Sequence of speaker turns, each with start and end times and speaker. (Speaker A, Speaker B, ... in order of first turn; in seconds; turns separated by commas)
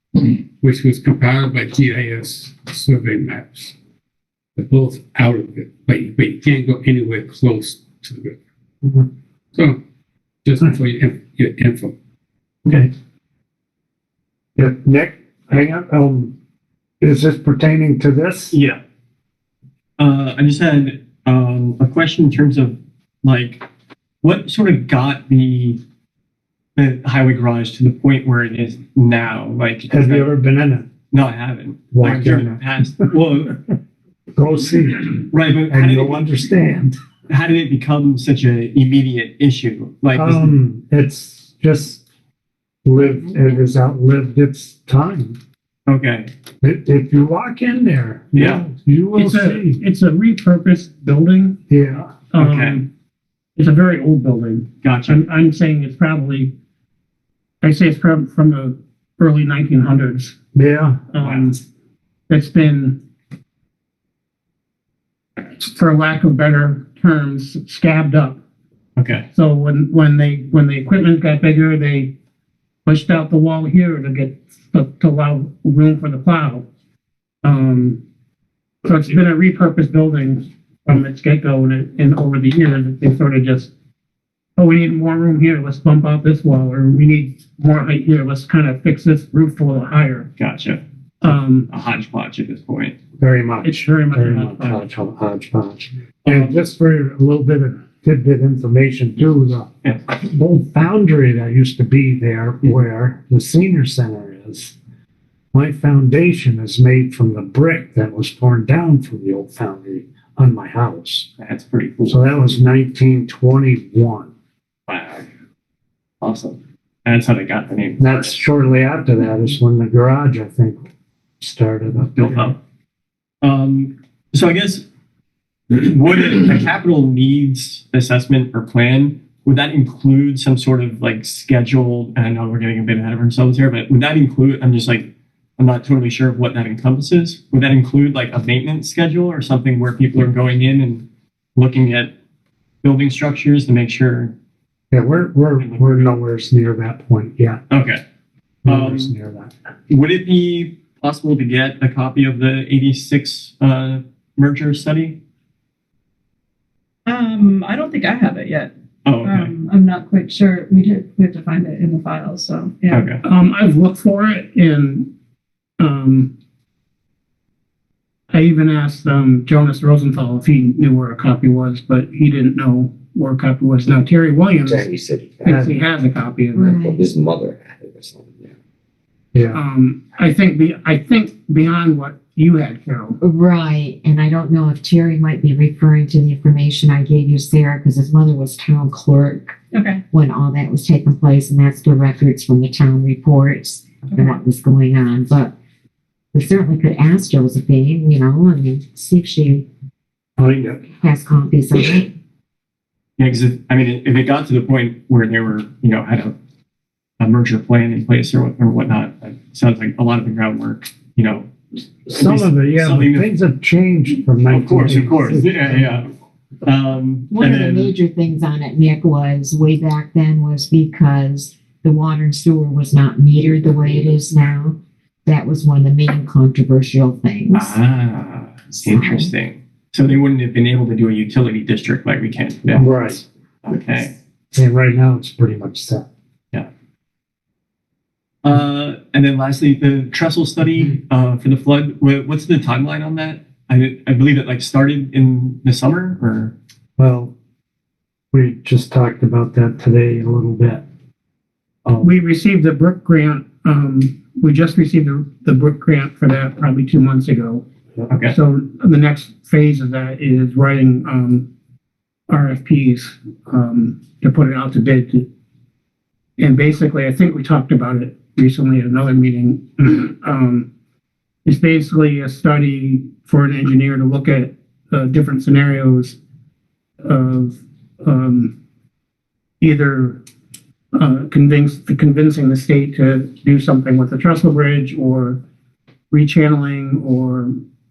Speaker A: 0.1-3.7, Speaker A: 4.5-8.3, Speaker A: 10.4-11.9, Speaker B: 12.7-12.9, Speaker C: 14.6-16.3, Speaker C: 17.0-18.6, Speaker B: 18.5-18.8, Speaker B: 20.0-23.6, Speaker B: 24.2-25.8, Speaker B: 26.8-30.3, Speaker C: 29.9-30.9, Speaker B: 31.1-33.8, Speaker C: 31.9-32.6, Speaker C: 34.3-37.0, Speaker B: 35.3-36.3, Speaker B: 37.3-40.6, Speaker C: 40.1-42.0, Speaker C: 42.8-45.4, Speaker B: 45.9-46.3, Speaker C: 46.6-49.8, Speaker B: 48.3-48.6, Speaker D: 49.2-51.6, Speaker C: 51.7-52.1, Speaker D: 52.3-52.9, Speaker B: 52.4-52.8, Speaker D: 53.5-56.5, Speaker B: 54.8-55.2, Speaker D: 57.6-60.3, Speaker C: 60.5-61.0, Speaker D: 61.1-61.6, Speaker B: 61.2-61.5, Speaker D: 62.3-63.0, Speaker D: 65.5-68.4, Speaker B: 69.0-69.3, Speaker D: 69.3-72.1, Speaker D: 72.8-76.7, Speaker D: 77.4-78.0, Speaker D: 78.8-83.7, Speaker D: 84.5-90.3, Speaker B: 90.4-90.8, Speaker D: 91.2-91.7, Speaker B: 91.7-92.9, Speaker C: 93.2-104.7, Speaker D: 93.6-94.8, Speaker C: 105.5-111.3, Speaker B: 111.4-112.3, Speaker C: 112.1-114.3, Speaker B: 114.9-115.3, Speaker B: 116.2-118.3, Speaker C: 118.0-120.8, Speaker C: 121.4-122.5, Speaker B: 122.1-122.6, Speaker B: 123.4-124.8, Speaker B: 125.7-142.1, Speaker B: 142.8-144.3, Speaker C: 144.9-147.6, Speaker B: 145.6-146.2, Speaker B: 147.7-148.0, Speaker C: 148.6-149.5, Speaker B: 148.7-149.1, Speaker B: 149.9-155.2, Speaker E: 157.1-158.7, Speaker A: 157.4-158.4, Speaker B: 159.0-159.5, Speaker A: 159.2-159.7, Speaker E: 159.5-163.0, Speaker B: 162.9-163.2, Speaker D: 163.2-165.1, Speaker D: 165.8-166.3, Speaker D: 168.3-174.8, Speaker F: 174.5-175.8, Speaker C: 175.5-175.7, Speaker D: 175.5-176.8, Speaker G: 176.5-177.0, Speaker F: 176.7-178.5, Speaker D: 179.5-183.1, Speaker G: 183.2-189.6, Speaker G: 190.1-195.5, Speaker G: 196.3-199.6, Speaker C: 200.4-200.8, Speaker G: 200.9-202.1, Speaker B: 203.2-206.3, Speaker B: 207.2-211.5, Speaker B: 212.1-213.3, Speaker C: 212.1-216.0, Speaker B: 214.5-216.1, Speaker B: 216.6-217.9, Speaker G: 217.3-227.8, Speaker B: 227.5-234.1, Speaker G: 228.8-229.3, Speaker C: 232.7-233.2, Speaker C: 234.5-236.1, Speaker B: 238.4-246.5, Speaker C: 247.0-247.3, Speaker C: 248.3-250.8, Speaker C: 251.8-252.1, Speaker D: 252.0-257.6, Speaker B: 258.1-258.3, Speaker D: 258.3-261.5, Speaker D: 262.3-265.3, Speaker D: 266.4-270.7, Speaker D: 271.4-276.2, Speaker D: 277.0-278.5, Speaker D: 279.6-280.2, Speaker D: 280.9-285.4, Speaker D: 286.1-287.5